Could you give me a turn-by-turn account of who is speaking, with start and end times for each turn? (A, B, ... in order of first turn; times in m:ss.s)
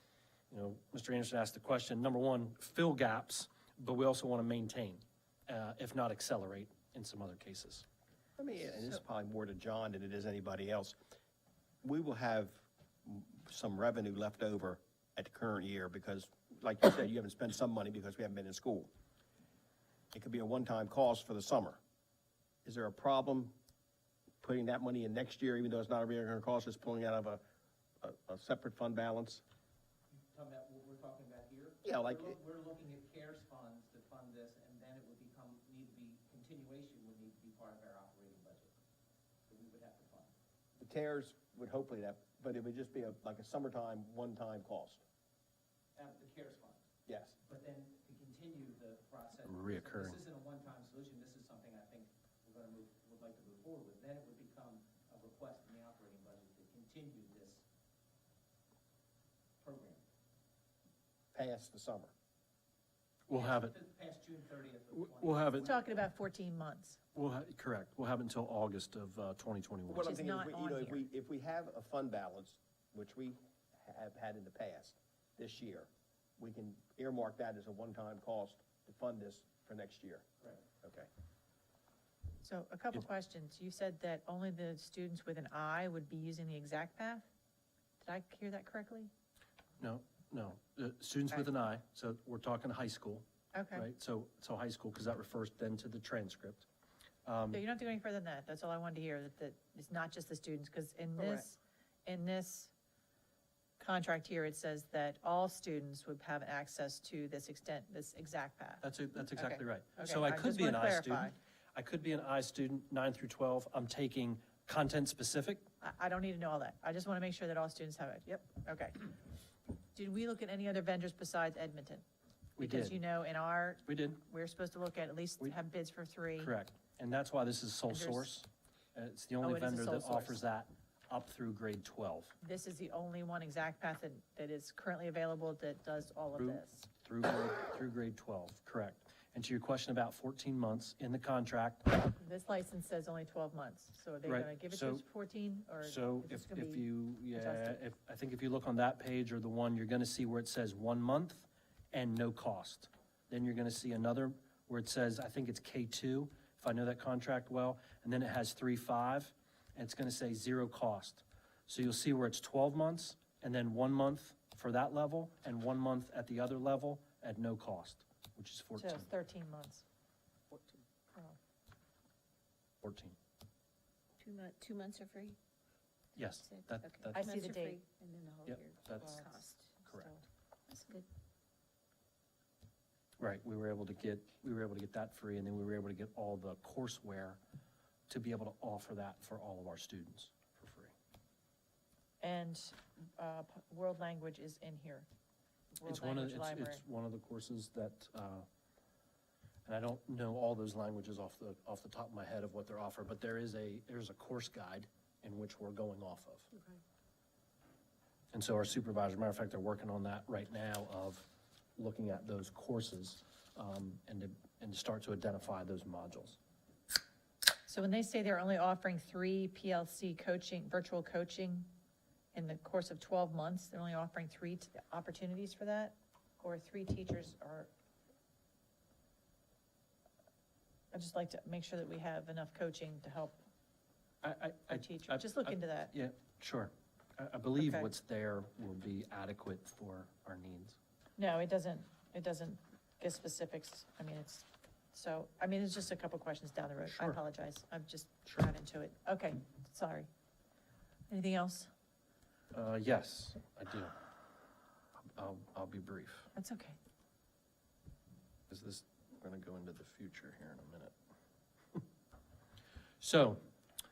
0:00.5-0:07.8 A
0:08.4-0:11.0 B
0:11.8-0:18.9 B
0:20.1-0:21.8 B
0:22.6-0:23.5 B
0:24.4-0:27.4 B
0:28.0-0:29.4 B
0:30.1-0:38.7 C
0:31.8-0:32.4 B
0:39.5-0:40.3 C
0:40.8-0:45.0 B
0:46.0-0:46.8 C
0:47.0-0:47.4 B
0:47.4-0:57.6 C
0:49.4-0:50.2 A
0:59.6-1:00.0 C
1:01.3-1:02.1 B
1:03.3-1:03.7 A
1:03.3-1:05.9 C
1:04.9-1:05.7 A
1:05.6-1:07.0 D
1:07.1-1:10.1 A
1:09.9-1:20.2 B
1:10.0-1:11.0 D
1:20.8-1:21.1 B
1:22.4-1:27.2 D
1:28.0-1:29.1 D
1:29.8-1:36.6 A
1:33.5-1:33.8 D
1:37.2-1:37.6 A
1:37.5-1:42.7 D
1:43.8-1:51.3 D
1:48.8-1:55.6 A
1:55.8-1:59.1 D
1:59.9-2:02.0 D
2:02.6-2:03.0 A
2:02.6-2:06.5 D
2:03.8-2:04.2 A
2:06.4-2:12.4 A
2:07.9-2:08.3 D
2:09.4-2:10.4 D
2:12.4-2:16.9 D
2:16.4-2:21.9 A
2:22.2-2:27.8 D
2:24.2-2:25.0 A
2:25.8-2:49.1 A
2:48.8-2:49.8 D
2:52.8-2:53.2 A
2:54.2-2:55.4 E
2:56.2-2:57.2 A
2:56.5-2:59.7 E
2:57.1-2:57.8 D
2:58.4-2:59.1 A
2:58.9-3:00.2 D
2:59.8-3:00.1 A
3:00.7-3:01.0 E
3:03.2-3:07.4 A
3:08.1-3:10.9 A
3:12.2-3:15.0 D
3:15.8-3:16.8 D
3:15.8-3:18.4 A
3:19.6-3:26.5 A
3:28.3-3:36.4 A
3:37.7-3:41.7 D
3:42.3-3:47.7 D
3:50.9-3:53.4 D
3:54.2-4:00.8 A
3:54.7-3:55.9 D
3:57.6-3:57.9 D
4:01.2-4:10.1 D
4:06.8-4:07.2 A
4:11.1-4:11.7 D
4:12.5-4:13.9 A
4:15.1-4:16.3 A
4:16.3-4:16.8 D
4:18.5-4:20.9 A
4:23.0-4:23.4 A